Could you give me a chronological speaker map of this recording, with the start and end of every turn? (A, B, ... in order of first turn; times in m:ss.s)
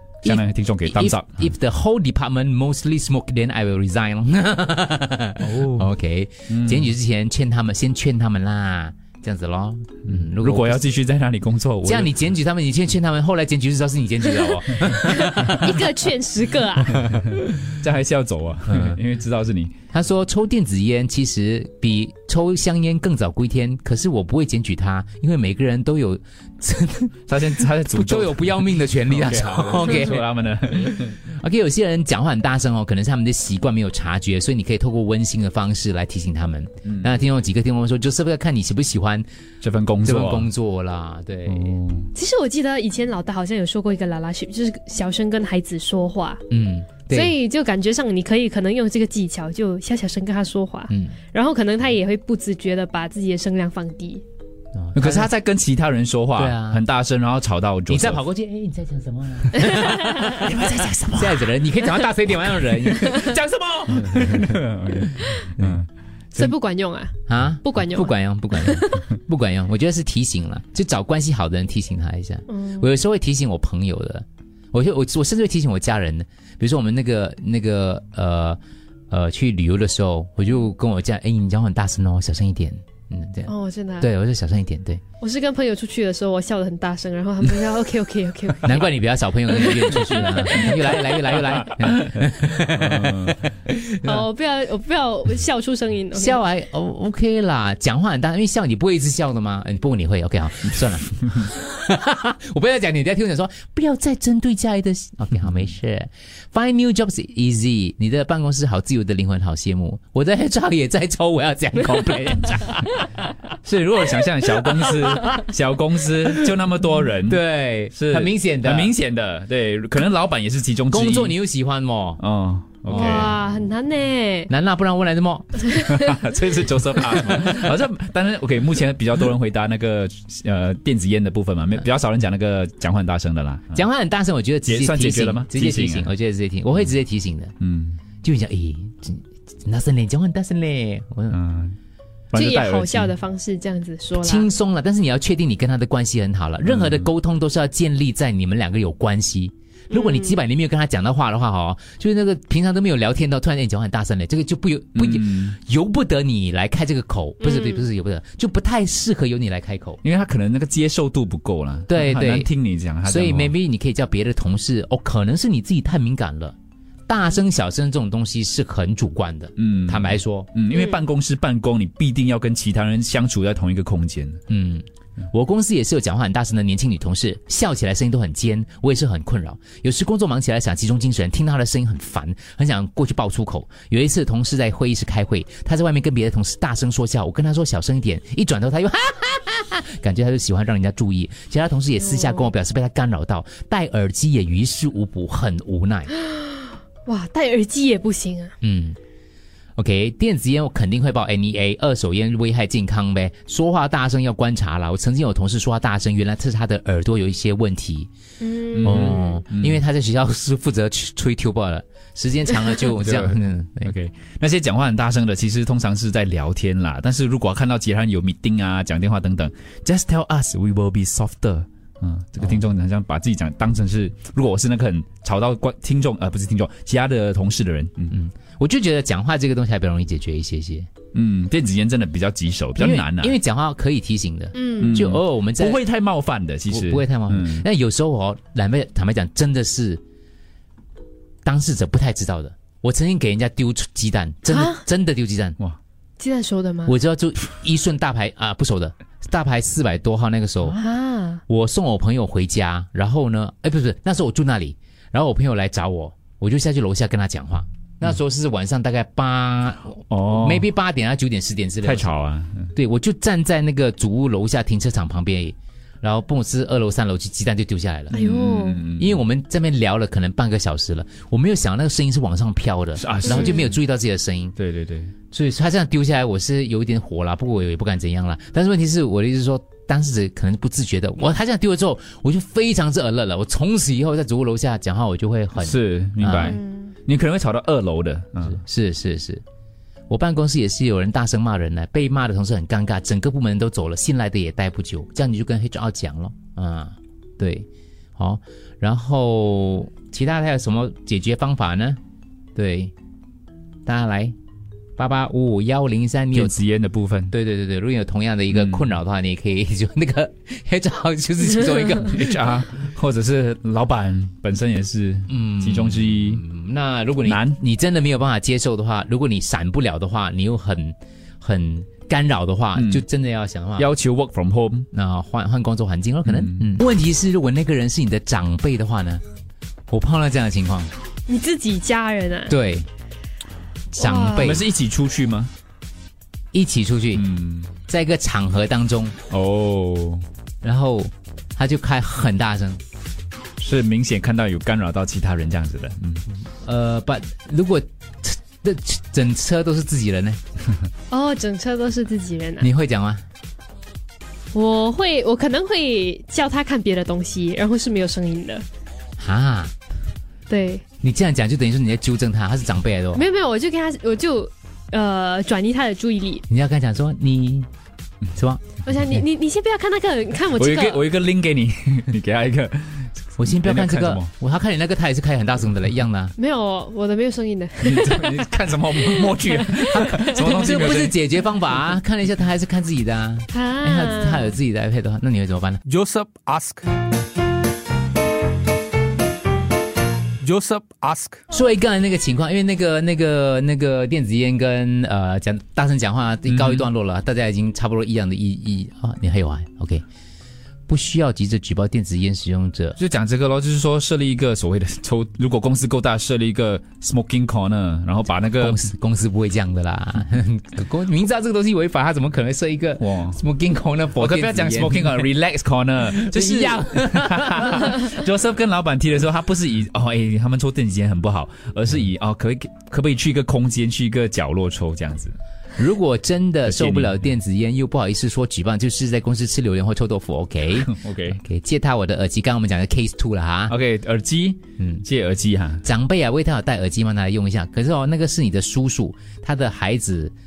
0:00.2-0:01.4 A
0:00.2-0:10.9 B
0:05.4-0:05.9 A
0:06.5-0:06.9 A
0:10.1-0:12.1 A
0:11.8-0:15.7 B
0:14.9-0:17.0 C
0:17.6-0:19.7 A
0:18.7-0:19.0 B
0:19.9-0:39.3 B
0:27.3-0:31.2 A
0:39.6-0:40.5 A
0:40.0-0:41.8 B
0:41.5-0:42.1 A
0:42.1-0:46.4 C
0:46.5-0:47.4 B
0:47.1-0:54.2 C
0:50.9-0:51.2 B
0:54.7-0:55.4 B
0:55.0-0:58.2 A
0:56.4-0:56.8 B
0:57.9-1:03.3 B
1:03.2-1:05.9 A
1:03.9-1:04.6 B
1:06.4-1:08.8 C
1:07.3-1:18.6 B
1:12.5-1:12.9 C
1:19.1-1:25.0 B
1:23.5-1:24.1 C
1:25.2-1:28.9 C
1:28.6-1:34.3 B
1:29.4-1:31.7 C
1:32.6-1:33.4 A
1:34.0-1:36.4 C
1:36.1-1:53.1 B
1:53.6-1:57.4 A
1:54.0-1:55.4 B
1:57.2-1:59.0 B
1:57.9-2:01.4 A
2:00.9-2:02.2 B
2:02.2-2:03.3 A
2:02.9-2:03.4 B
2:02.9-2:04.5 C
2:04.5-2:05.9 B
2:05.9-2:13.8 A
2:07.2-2:07.4 B
2:13.7-2:17.5 B
2:14.6-2:16.1 A
2:17.6-2:18.0 A
2:18.2-2:21.4 B
2:21.3-2:21.8 A
2:22.3-2:23.1 A
2:22.3-2:24.5 C
2:24.1-2:40.0 B
2:29.9-2:30.4 C
2:35.0-2:35.6 A
2:37.4-2:37.9 C
2:40.0-2:43.5 A
2:41.9-2:42.5 B
2:43.0-2:46.6 B
2:47.1-2:50.5 B
2:49.6-2:54.4 A
2:50.7-2:51.0 C
2:54.5-3:16.1 B
3:12.0-3:12.5 C
3:16.3-3:18.5 C
3:18.6-3:19.0 B
3:19.8-3:28.1 B
3:28.4-3:29.4 C
3:28.8-3:29.8 A
3:28.8-3:33.9 B
3:33.0-3:48.2 A
3:48.1-3:50.9 B
3:51.1-3:53.4 A
3:52.8-3:55.8 B
3:54.5-3:55.0 C
3:54.8-3:57.6 A
3:56.7-4:00.0 B
4:01.4-4:05.6 B
4:04.5-4:04.8 C
4:06.2-4:07.0 C
4:06.9-4:10.8 B
4:10.6-4:11.4 C
4:11.5-4:22.2 B
4:20.1-4:20.7 A
4:21.8-4:22.7 A
4:22.8-4:28.2 B
4:28.1-4:29.2 A
4:28.1-4:28.8 C
4:29.0-4:34.6 B
4:33.0-4:33.8 A
4:33.3-4:33.6 C
4:34.6-4:35.1 A
4:35.3-4:46.6 B
4:45.6-4:48.6 A
4:46.4-4:46.9 C
4:48.4-4:49.4 B
4:50.1-4:57.7 B
4:58.2-5:02.0 B
5:02.6-5:02.9 B
5:03.9-5:04.4 B
5:05.0-5:06.6 B
5:06.3-5:07.3 A
5:07.3-5:12.6 B
5:08.5-5:08.9 A
5:12.1-5:16.4 A
5:15.3-5:23.9 B
5:17.2-5:17.6 A
5:22.8-5:23.0 A
5:23.8-5:24.9 A
5:24.9-5:29.2 B
5:26.3-5:26.7 A
5:29.9-5:30.9 B
5:31.3-5:32.6 C
5:32.5-5:32.9 B
5:33.9-5:34.7 B
5:34.0-5:34.6 C
5:34.4-5:35.5 A
5:36.5-5:37.2 B
5:37.2-5:37.7 A
5:37.9-5:39.2 B
5:39.3-5:40.2 A
5:40.6-5:42.8 B
5:43.6-5:46.2 A
5:46.6-5:50.4 B
5:51.1-5:52.7 C
5:52.6-5:53.2 B
5:54.5-5:58.6 C
5:59.2-5:59.7 B
6:00.5-6:00.8 C
6:01.0-6:03.2 B
6:03.1-6:06.4 C
6:06.5-6:07.7 B
6:08.3-6:09.3 B
6:08.8-6:11.0 C
6:10.6-6:14.3 A
6:13.4-6:16.4 B
6:16.4-6:20.8 C
6:17.8-6:21.2 A
6:19.9-6:25.8 B
6:23.5-6:24.6 C
6:25.9-6:26.9 D
6:25.9-6:26.5 A
6:30.4-6:31.4 D
6:31.5-6:40.0 B
6:36.5-6:36.9 A
6:40.9-6:43.0 B
6:43.0-6:48.8 A
6:48.6-6:55.3 B
6:53.0-6:53.4 A
6:54.2-7:05.4 A
6:56.0-6:58.1 B
7:05.8-7:13.8 B
7:06.7-7:07.2 A
7:10.8-7:11.4 A
7:13.7-7:15.8 A
7:14.8-7:15.1 B
7:15.8-7:20.3 B